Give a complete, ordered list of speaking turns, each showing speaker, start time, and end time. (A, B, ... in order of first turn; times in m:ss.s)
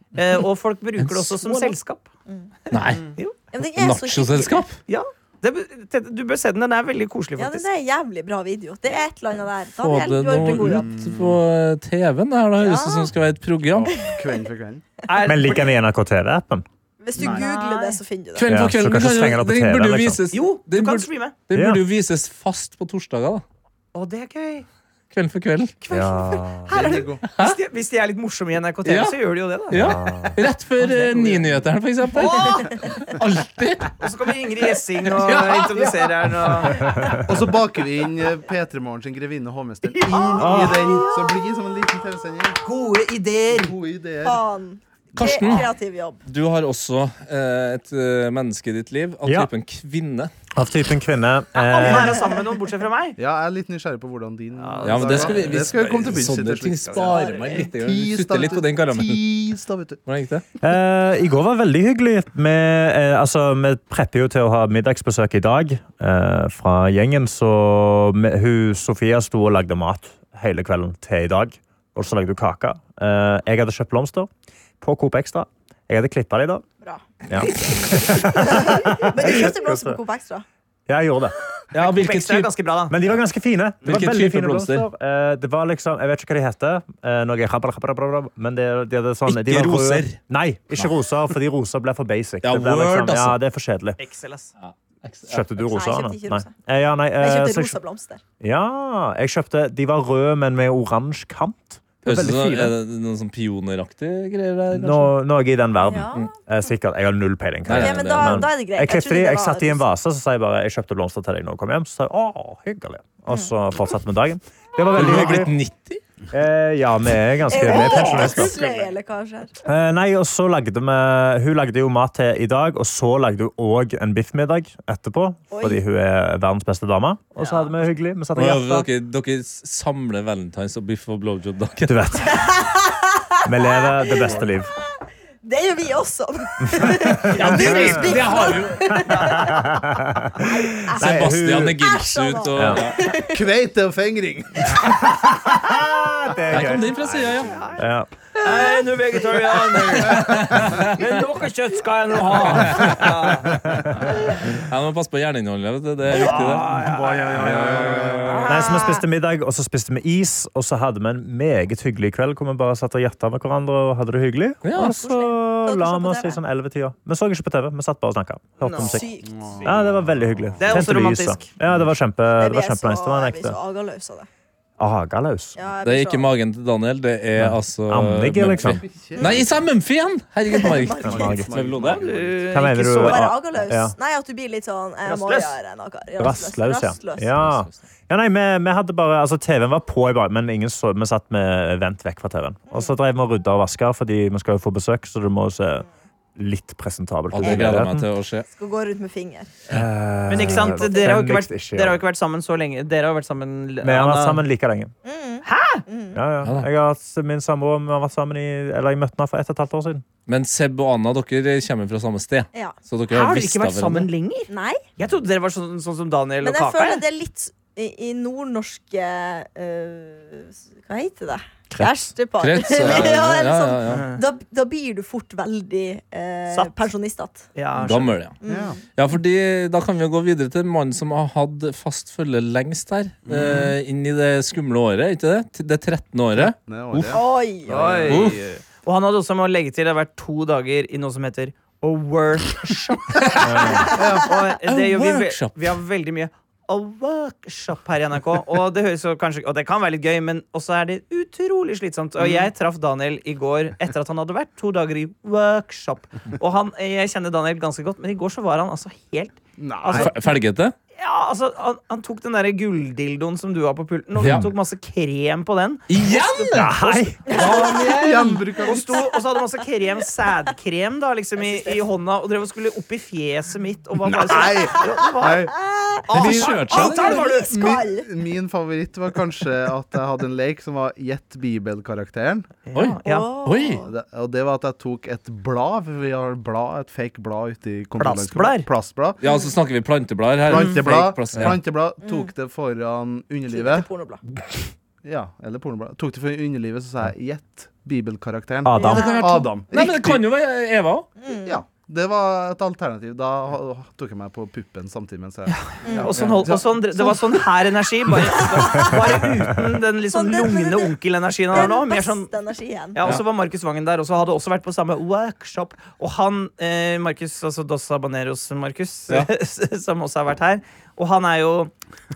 0:00.1-0:02.1 A
0:01.0-0:01.7 B
0:02.7-0:03.4 A
0:02.7-0:03.1 B
0:03.5-0:04.6 C
0:03.8-0:04.8 B
0:04.9-0:07.7 A
0:07.4-0:10.9 C
0:09.8-0:14.0 B
0:10.4-0:11.4 D
0:12.6-0:13.1 C
0:13.7-0:14.8 D
0:15.1-0:15.7 A
0:15.2-0:16.6 E
0:17.0-0:18.5 C
0:17.2-0:18.0 A
0:17.2-0:17.4 D
0:18.4-0:23.4 B
0:18.5-0:20.2 E
0:20.3-0:21.4 A
0:21.5-0:21.8 E
0:23.9-0:24.6 A
0:25.1-0:25.8 B
0:25.9-0:26.8 E
0:25.9-0:29.9 A
0:26.7-0:27.2 D
0:26.8-0:27.0 C
0:27.3-0:27.6 B
0:28.9-0:29.2 B
0:29.7-0:34.0 B
0:29.7-0:30.4 E
0:30.8-0:31.6 A
0:32.1-0:32.7 A
0:32.3-0:33.0 C
0:34.0-0:37.0 A
0:35.1-0:35.7 B
0:36.9-0:37.2 E
0:37.2-0:42.6 D
0:39.9-0:40.6 A
0:40.1-0:41.4 C
0:40.4-0:40.9 E
0:42.6-0:43.7 A
0:43.5-0:44.4 D
0:44.2-0:46.2 C
0:45.2-0:45.7 B
0:45.2-0:45.6 D
0:46.3-0:50.3 B
0:49.2-0:49.5 E
0:50.6-0:52.3 E
0:51.6-0:53.2 A
0:53.2-1:00.0 D
0:54.6-0:55.7 A
0:54.8-0:59.2 B
0:56.9-0:57.6 A
1:00.1-1:00.4 B
1:00.6-1:14.3 E
1:14.8-1:16.6 E
1:17.3-1:20.0 E
1:18.2-1:20.4 C
1:20.9-1:21.4 E
1:21.7-1:22.5 B
1:21.8-1:23.0 A
1:22.9-1:34.0 E
1:23.8-1:24.9 B
1:29.2-1:30.2 B
1:32.4-1:33.4 B
1:34.0-1:34.5 A
1:34.6-1:35.5 B
1:35.3-1:37.8 E
1:35.6-1:36.5 C
1:37.2-1:38.2 C
1:38.4-1:42.8 E
1:42.0-1:45.1 B
1:44.7-1:55.5 E
1:45.8-1:46.3 C
1:47.6-1:48.5 B
1:47.7-1:49.8 C
1:54.9-1:56.0 B
1:56.3-1:58.6 E
1:57.5-1:59.6 C
1:57.8-1:58.9 A
1:59.6-2:08.9 E
2:05.5-2:05.8 C
2:07.4-2:07.7 A
2:08.3-2:12.0 B
2:11.9-2:12.5 E
2:12.3-2:14.4 C
2:13.4-2:14.7 E
2:15.4-2:19.7 C
2:16.7-2:18.2 E
2:17.3-2:18.4 A
2:17.3-2:19.0 B
2:19.2-2:21.8 E
2:20.4-2:21.2 C
2:21.0-2:23.1 B
2:21.8-2:23.4 C
2:22.6-2:22.9 E
2:23.2-2:25.1 D
2:25.4-2:28.1 E
2:26.5-2:27.6 B
2:27.4-2:27.8 A
2:28.4-2:34.4 A
2:29.9-2:31.1 B
2:32.3-2:33.3 B
2:34.4-2:38.5 B
2:36.1-2:38.6 A
2:37.4-2:38.3 D
2:38.5-2:49.1 E
2:38.6-2:39.0 C
2:44.6-2:45.0 B
2:44.8-2:46.4 C
2:48.6-2:49.0 A
2:48.8-2:49.3 C
2:49.2-2:50.8 D
2:49.6-2:53.6 E
2:50.6-2:51.5 A
2:52.4-2:54.3 C
2:54.8-2:55.6 E
2:55.6-2:56.3 C
2:55.8-3:02.1 B
2:57.4-2:58.8 E
2:58.6-2:59.6 D
3:00.5-3:01.2 C
3:01.0-3:01.5 E
3:01.0-3:02.5 D
3:01.9-3:03.3 A
3:02.5-3:04.0 E
3:03.0-3:07.4 C
3:05.0-3:05.6 A
3:06.2-3:18.1 E
3:07.4-3:07.8 B
3:17.3-3:18.5 B
3:18.5-3:19.5 C
3:19.7-3:22.0 E
3:20.3-3:24.4 A
3:20.8-3:21.1 C
3:23.8-3:24.9 E
3:25.0-3:26.2 C
3:25.4-3:25.8 A
3:26.1-3:30.1 E
3:26.4-3:26.7 B
3:30.3-3:34.1 B
3:33.1-3:37.0 A
3:34.5-3:34.8 C
3:36.4-3:47.5 C
3:42.4-3:44.1 B
3:43.9-3:44.2 A
3:47.6-3:48.2 A
3:47.8-3:48.4 B
3:48.4-3:48.8 C
3:48.4-3:48.8 D
3:48.9-3:57.2 B
3:53.3-3:53.7 D
3:56.4-3:58.5 D
3:57.1-3:58.0 C
3:57.7-4:20.1 A
3:58.1-3:58.4 B
4:03.2-4:03.9 B
4:03.8-4:04.0 C
4:03.8-4:04.3 D
4:04.7-4:05.6 B
4:12.2-4:12.5 D
4:19.6-4:20.1 D
4:19.9-4:20.7 B
4:21.0-4:27.9 A
4:24.2-4:24.5 B
4:25.9-4:28.4 B
4:26.5-4:27.2 E
4:27.3-4:28.0 C
4:27.3-4:29.1 D
4:28.6-4:35.5 A
4:31.4-4:31.8 C
4:34.0-4:35.6 D
4:34.4-4:38.1 C
4:36.1-4:37.5 A
4:36.1-4:37.2 B
4:36.2-4:42.5 D
4:42.6-4:43.3 A
4:42.7-4:43.8 B
4:43.0-4:43.9 C
4:43.8-4:49.2 D
4:48.0-4:48.7 A
4:49.2-4:51.6 B
4:49.2-4:49.5 C
4:50.5-4:53.9 D
4:50.5-4:50.8 A
4:52.0-4:52.3 C
4:53.5-4:54.2 C
4:55.0-5:00.2 D
4:58.6-4:59.1 E
4:58.8-4:59.5 C
4:58.8-5:01.1 B
5:01.2-5:01.6 C
5:01.5-5:07.5 D
5:05.5-5:12.3 A
5:05.8-5:06.1 C
5:06.2-5:06.4 B
5:08.4-5:09.0 C
5:10.1-5:10.9 C
5:11.5-5:13.0 C
5:12.9-5:21.7 A